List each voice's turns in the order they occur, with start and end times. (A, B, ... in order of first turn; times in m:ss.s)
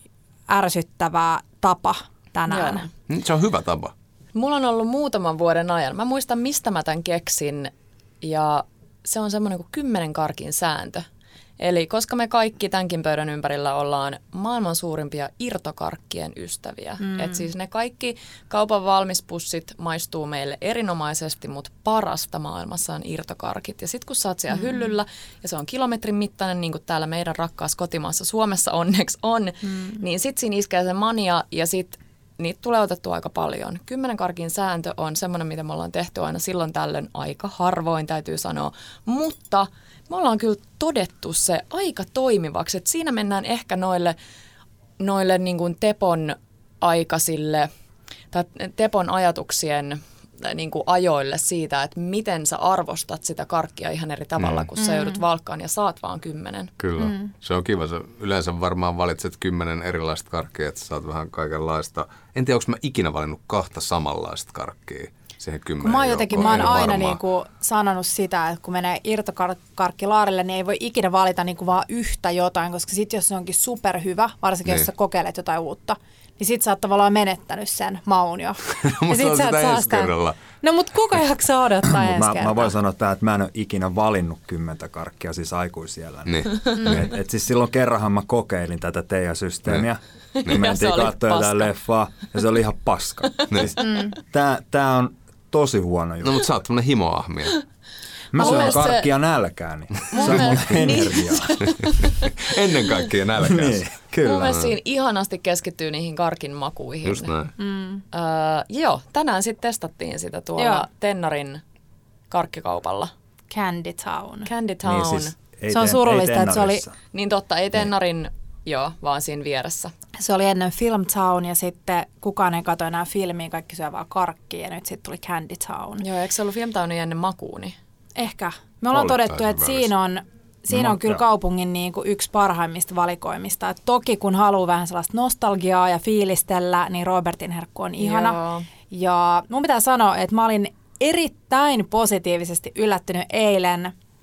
0:00.5-0:02.9 A
0:02.5-0:02.9 B
0:03.1-0:03.9 C
0:04.3-0:07.7 B
0:08.2-0:11.0 B
0:11.6-0:44.2 B
0:17.1-0:17.4 A
0:45.0-0:47.7 B
0:48.3-0:56.7 B
0:54.4-0:54.7 C
0:54.8-0:55.2 A
0:56.8-1:07.2 C
0:57.0-0:57.3 A
1:05.8-1:22.7 A
1:18.7-1:20.4 C
1:21.8-1:36.5 D
1:26.3-1:27.1 C
1:30.4-1:31.7 B
1:33.9-1:34.1 A
1:36.2-1:37.6 C
1:38.3-1:41.7 D
1:38.4-1:39.1 B
1:40.1-1:42.3 B
1:41.6-1:43.8 C
1:43.4-1:44.7 D
1:44.2-1:47.3 B
1:47.0-1:47.5 C
1:47.6-1:48.0 A
1:48.1-1:51.6 B
1:50.6-1:50.8 A
1:52.3-1:53.1 B
1:53.5-1:54.5 A
1:54.4-1:55.3 B
1:54.8-1:56.9 D
1:55.7-1:56.8 A
1:57.1-1:59.9 B
2:00.2-2:06.0 A
2:06.0-2:07.8 B
2:08.2-2:23.9 A
2:08.9-2:09.9 C
2:10.7-2:11.2 D
2:18.0-2:18.7 B